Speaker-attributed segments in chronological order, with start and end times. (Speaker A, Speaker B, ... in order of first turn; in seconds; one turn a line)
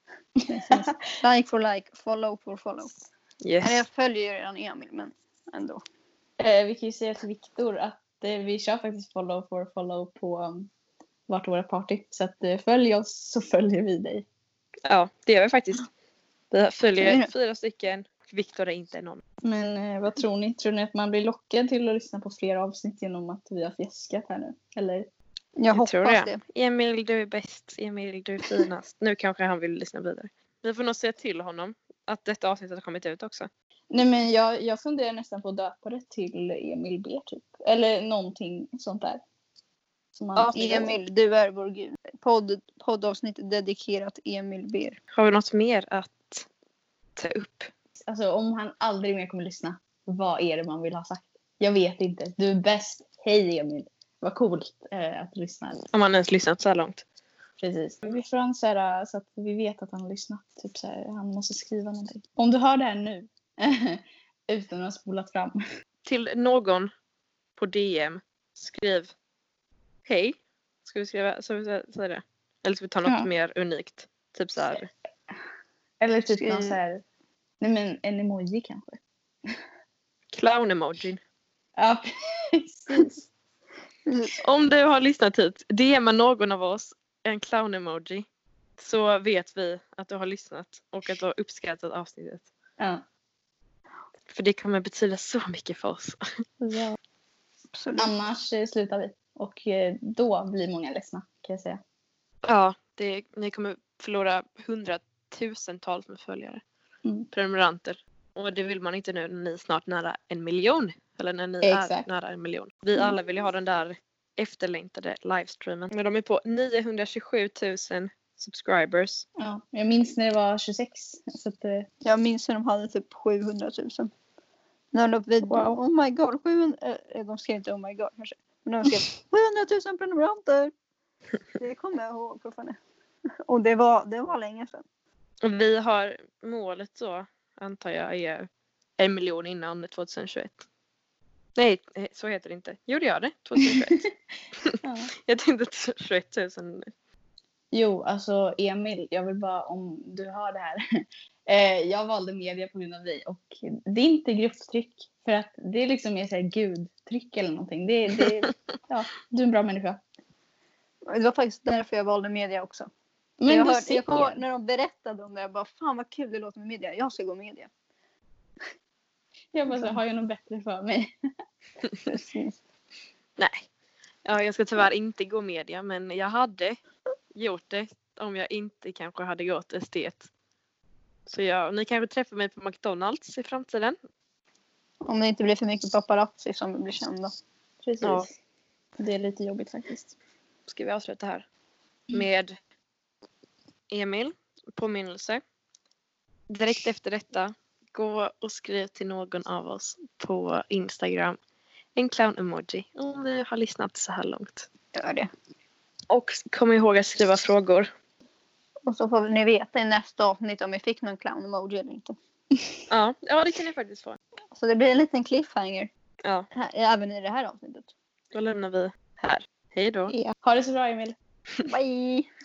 Speaker A: 0.4-0.9
Speaker B: 0.5-2.9
Speaker C: 3.4-3.8
Speaker B: 3.6-5.8
Speaker A: 6.4-10.7
Speaker A: 11.3-14.2
Speaker C: 14.8-15.9
Speaker C: 16.5-19.2
Speaker B: 17.0-17.3
Speaker A: 19.4-25.1
Speaker B: 25.6-26.4
Speaker C: 25.7-33.5
Speaker A: 33.9-39.2
Speaker A: 40.1-40.9
Speaker B: 40.5-45.0
Speaker C: 45.1-46.5
Speaker C: 47.1-47.7
Speaker A: 48.0-55.8
Speaker C: 55.9-57.0
Speaker A: 57.6-65.6
Speaker C: 66.0-66.9
Speaker C: 67.5-69.1
Speaker C: 70.0-74.9
Speaker A: 76.0-77.0
Speaker B: 76.4-76.8
Speaker A: 77.6-79.6
Speaker C: 80.3-81.2
Speaker A: 81.8-83.3
Speaker B: 84.0-84.3
Speaker C: 84.4-88.3
Speaker C: 88.8-92.5
Speaker C: 94.3-96.2
Speaker A: 96.6-97.0
Speaker B: 97.7-98.1
Speaker A: 98.0-101.8
Speaker C: 102.4-106.6
Speaker C: 107.3-119.2
Speaker A: 111.6-112.1
Speaker A: 119.4-121.9
Speaker B: 122.0-124.1
Speaker B: 124.9-130.7
Speaker A: 125.5-125.8
Speaker B: 131.6-132.8
Speaker B: 133.4-134.8
Speaker C: 135.4-140.6
Speaker C: 141.6-144.0
Speaker C: 144.6-146.9
Speaker A: 144.8-145.1
Speaker A: 147.7-160.0
Speaker B: 161.1-162.9
Speaker A: 163.4-164.4
Speaker B: 163.5-167.7
Speaker A: 169.5-171.1
Speaker B: 172.1-172.5
Speaker C: 173.4-173.7
Speaker C: 174.2-176.8
Speaker C: 177.3-180.3
Speaker C: 181.3-184.0
Speaker B: 185.0-187.3
Speaker A: 187.8-188.3
Speaker C: 188.0-188.3
Speaker A: 189.0-190.1
Speaker C: 190.7-191.4
Speaker C: 192.1-192.6
Speaker C: 193.9-195.4
Speaker C: 196.5-201.4
Speaker C: 201.9-204.7
Speaker B: 204.9-205.3
Speaker C: 206.1-207.9
Speaker B: 208.8-212.2
Speaker C: 212.9-214.2
Speaker B: 214.5-215.9
Speaker B: 216.5-217.9
Speaker C: 218.3-220.1
Speaker A: 220.1-221.2
Speaker B: 221.7-222.3